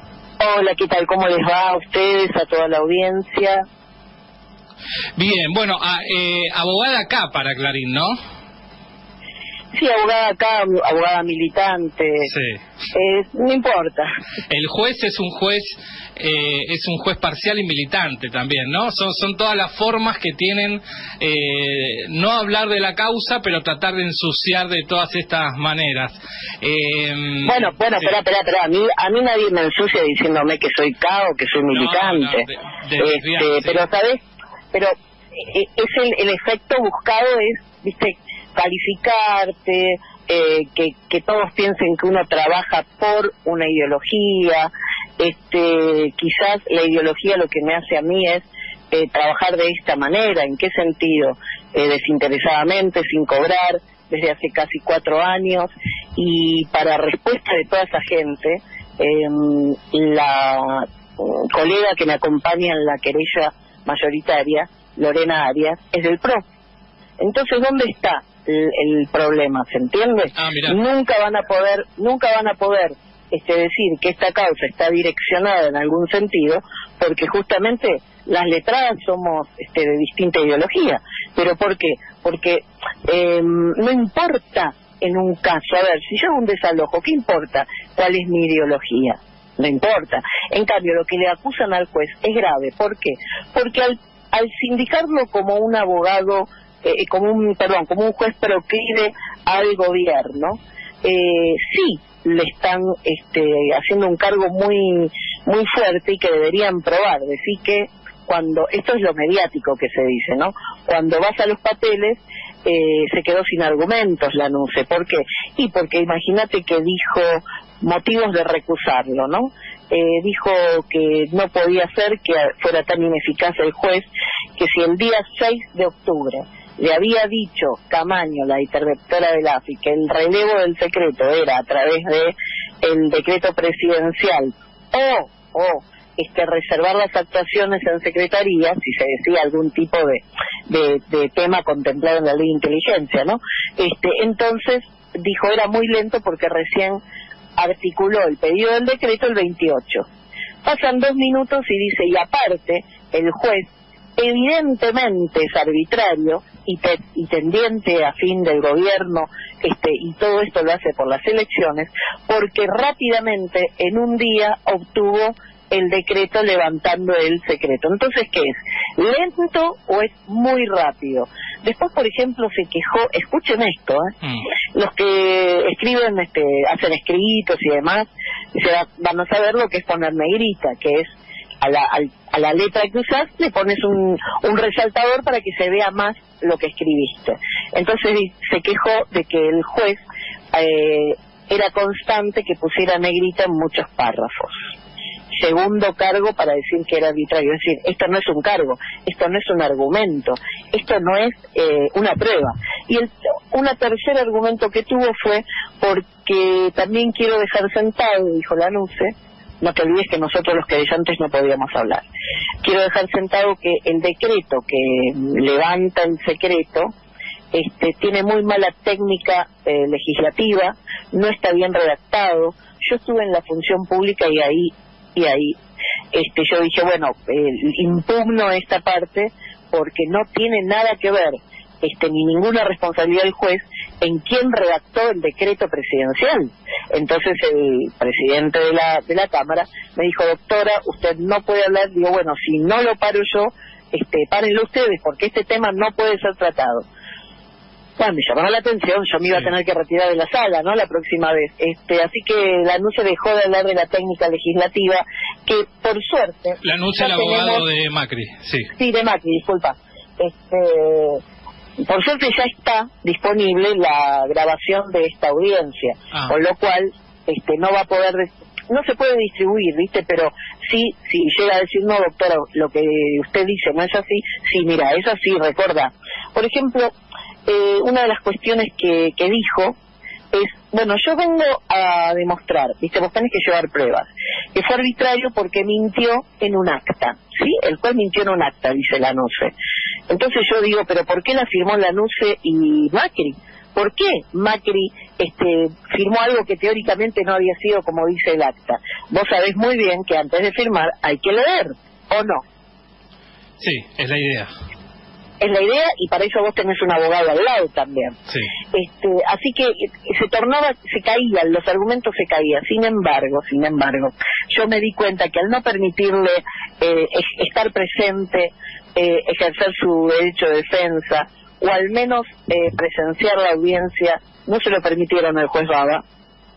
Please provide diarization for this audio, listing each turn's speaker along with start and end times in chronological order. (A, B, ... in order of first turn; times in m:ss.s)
0:00.4-0:03.6 A
0:05.2-0:08.1 B
0:09.7-0:12.3 A
0:12.3-0:12.6 B
0:12.9-0:14.1 A
0:14.5-0:28.1 B
0:27.4-0:32.4 A
0:31.7-0:33.9 B
0:33.0-1:06.4 A
1:07.2-2:27.0 A
1:10.3-1:10.8 B
2:27.6-2:30.1 A
2:30.6-2:54.1 A
2:54.2-2:54.5 B
2:54.7-3:10.0 A
3:10.5-3:14.7 A
3:15.3-3:32.1 A
3:32.6-3:36.9 A
3:37.5-3:45.6 A
3:46.1-4:06.8 A
4:08.0-4:17.6 A
4:16.6-4:18.7 B
4:18.8-4:21.2 A
4:21.8-4:36.9 A
4:37.4-4:39.8 A
4:40.3-4:49.5 A
4:50.1-5:02.4 A
5:03.6-5:04.5 B
5:05.4-5:08.1 A
5:08.7-5:26.0 A